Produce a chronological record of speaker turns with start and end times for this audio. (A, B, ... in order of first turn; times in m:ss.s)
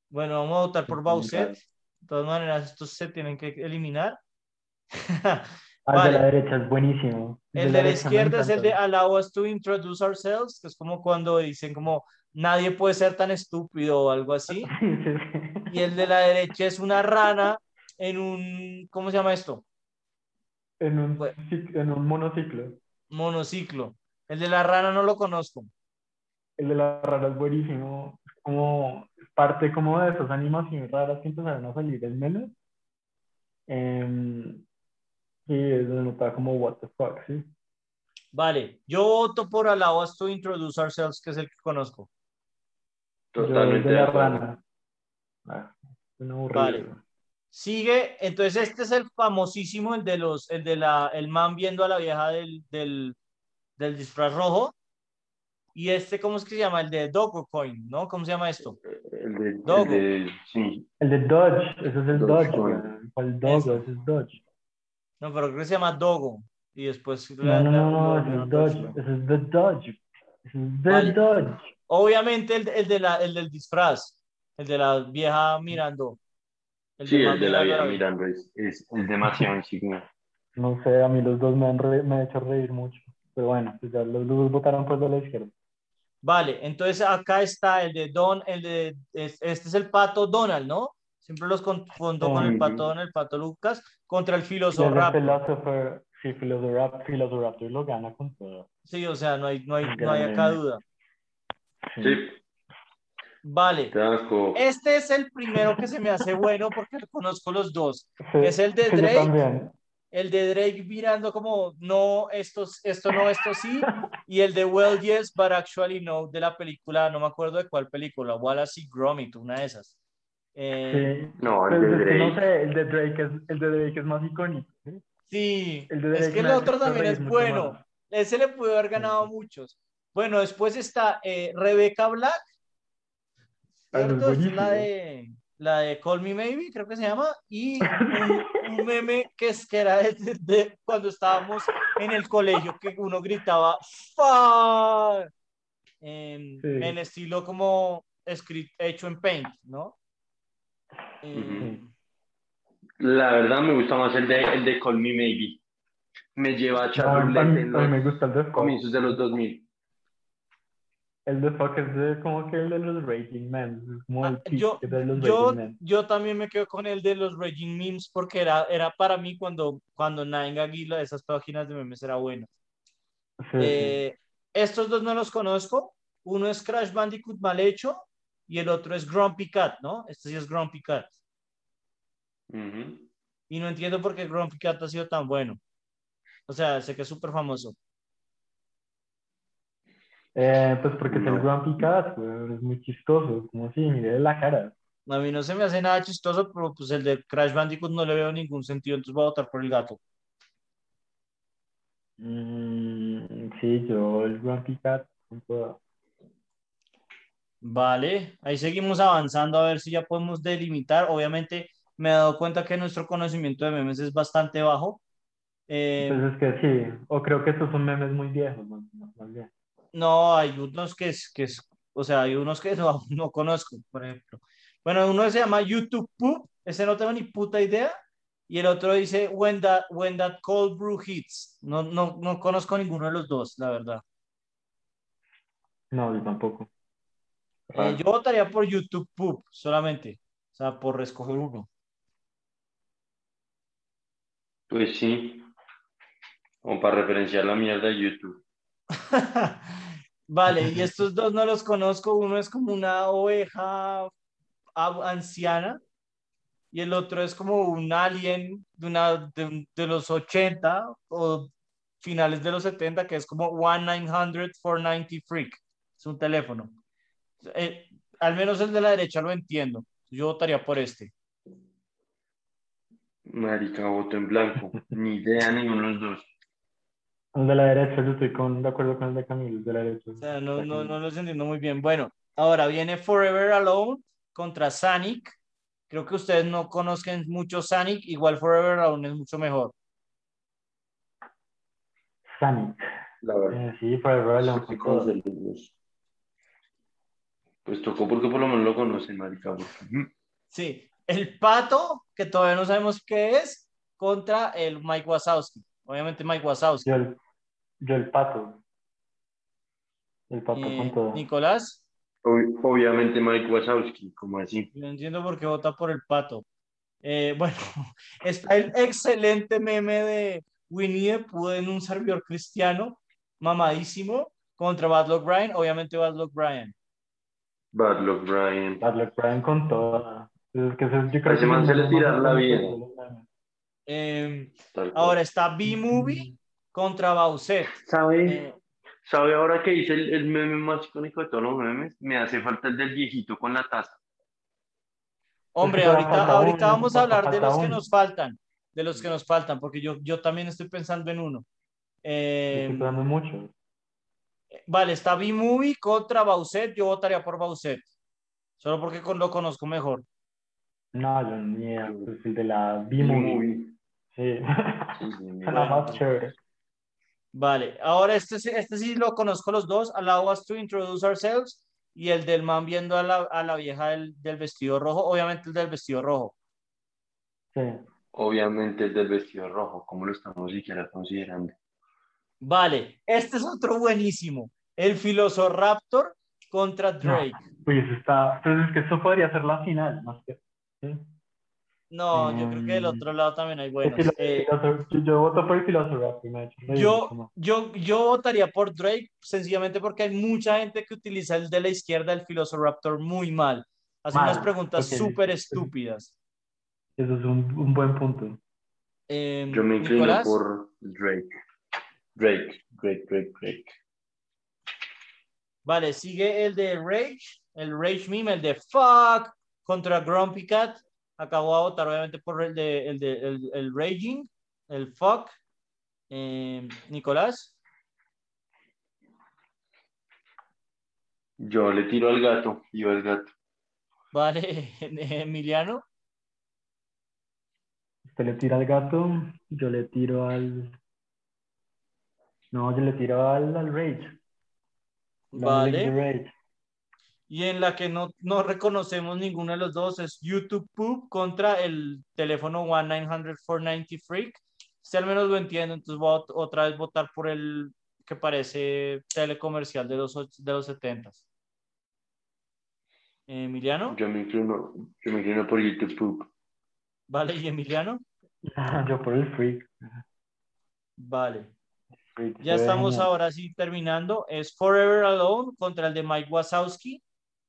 0:00.1-0:04.2 A
0:00.9-0:01.6 B
0:05.0-0:06.3 A
0:05.9-0:08.8 B
0:07.5-0:14.7 A
0:14.5-0:15.7 B
0:15.7-0:19.6 A
0:20.8-0:22.8 B
0:23.1-0:25.7 A
0:26.6-0:32.5 B
0:33.7-0:34.6 B
0:35.5-0:37.5 B
0:38.3-0:42.1 A
0:43.3-0:44.5 C
0:43.4-0:44.6 B
0:45.4-0:47.0 B
0:46.5-0:46.8 A
0:47.5-0:53.2 A
0:53.8-0:54.7 A
0:55.7-0:58.8 A
0:58.9-1:00.9 C
0:59.6-1:00.0 A
1:01.0-1:04.4 B
1:02.1-1:02.8 C
1:03.4-1:03.8 A
1:05.2-1:09.0 A
1:07.4-1:11.7 B
1:10.9-1:11.2 A
1:11.9-1:16.2 A
1:17.0-1:18.0 A
1:17.0-1:20.0 C
1:20.6-1:25.5 B
1:26.2-1:35.4 A
1:32.2-1:32.6 B
1:32.4-1:32.9 C
1:34.7-1:38.7 B
1:38.9-1:40.8 A
1:39.8-1:40.6 B
1:41.9-1:42.2 B
1:42.0-1:42.4 C
1:43.4-1:43.9 A
1:43.9-1:44.6 C
1:44.5-1:49.4 A
1:48.2-1:49.7 B
1:50.1-1:59.9 A
2:00.5-2:01.1 A
2:00.9-2:05.0 B
2:01.4-2:02.4 C
2:05.3-2:12.4 A
2:05.9-2:07.8 B
2:09.0-2:09.3 B
2:13.9-2:25.3 A
2:13.9-2:14.9 B
2:17.8-2:18.4 B
2:26.0-2:30.0 A
2:26.6-2:26.9 B
2:31.2-2:31.9 A
2:31.3-2:31.7 C
2:33.0-2:35.6 C
2:36.4-2:38.0 C
2:36.9-2:39.2 B
2:38.5-2:39.6 C
2:41.2-2:45.8 B
2:44.2-2:52.5 A
2:53.4-2:54.0 B
2:53.6-3:01.1 A
3:02.5-3:03.1 C
3:03.5-3:05.6 A
3:06.5-3:07.8 A
3:10.3-3:14.7 B
3:11.1-3:11.5 C
3:15.1-3:20.0 A
3:22.2-3:25.8 B
3:27.6-3:35.0 A
3:35.7-3:36.2 A
3:36.0-3:39.5 B
3:39.9-3:48.0 A
3:48.5-3:54.0 A
3:55.9-3:56.7 B
3:57.7-3:58.0 B
3:57.7-4:01.7 A
4:04.7-4:05.5 C
4:06.6-4:08.4 C
4:09.1-4:14.1 A
4:14.8-4:15.8 A
4:16.7-4:26.8 A
4:27.4-4:31.1 A
4:33.2-4:36.3 C
4:37.3-4:40.9 B
4:40.2-4:45.3 A
4:45.9-4:49.7 A
4:52.3-4:52.8 B
4:53.2-4:53.6 C
4:53.5-4:55.1 B
4:54.4-4:55.7 C
4:57.6-5:00.1 C
5:00.5-5:06.9 A
5:06.8-5:07.2 B
5:07.8-5:08.6 B
5:10.3-5:11.2 B
5:10.5-5:11.8 A
5:12.2-5:14.7 C
5:14.7-5:16.4 A
5:17.0-5:26.7 A
5:27.7-5:28.8 C
5:28.8-5:33.2 B
5:31.2-5:32.8 C
5:33.9-5:38.6 A
5:34.7-5:35.2 C
5:35.7-5:36.3 B
5:37.8-5:38.4 C
5:39.0-5:44.0 C
5:45.5-5:51.4 A
5:45.6-5:47.8 B
5:52.0-5:52.9 A
5:52.5-5:53.5 B
5:54.5-5:57.8 A
5:58.6-6:00.0 A
6:00.9-6:03.4 B
6:01.8-6:02.1 C
6:03.0-6:03.8 C
6:04.1-6:06.4 B
6:05.0-6:06.0 C
6:07.3-6:16.3 A
6:17.5-6:17.8 B
6:18.1-6:21.5 C
6:22.4-6:27.4 A
6:27.0-6:31.1 B
6:31.9-6:34.5 A
6:32.1-6:33.0 B
6:33.8-6:37.3 B
6:36.7-6:46.1 A
6:44.1-6:45.7 B
6:47.0-6:48.4 B
6:49.1-6:50.4 A
6:49.5-6:51.3 C
6:52.2-6:53.7 C
6:55.6-7:05.4 A
7:06.1-7:07.5 A
7:11.4-7:13.3 C
7:14.1-7:15.8 A
7:18.0-7:20.8 B
7:22.5-7:24.2 B
7:25.3-7:25.9 A
7:25.3-7:26.3 B
7:27.3-7:41.2 A
7:43.3-7:44.0 A
7:43.9-7:46.3 C
7:47.1-7:48.0 A
7:48.4-7:50.0 B
7:51.0-7:51.5 A
7:52.1-7:53.1 B
7:52.4-7:57.0 A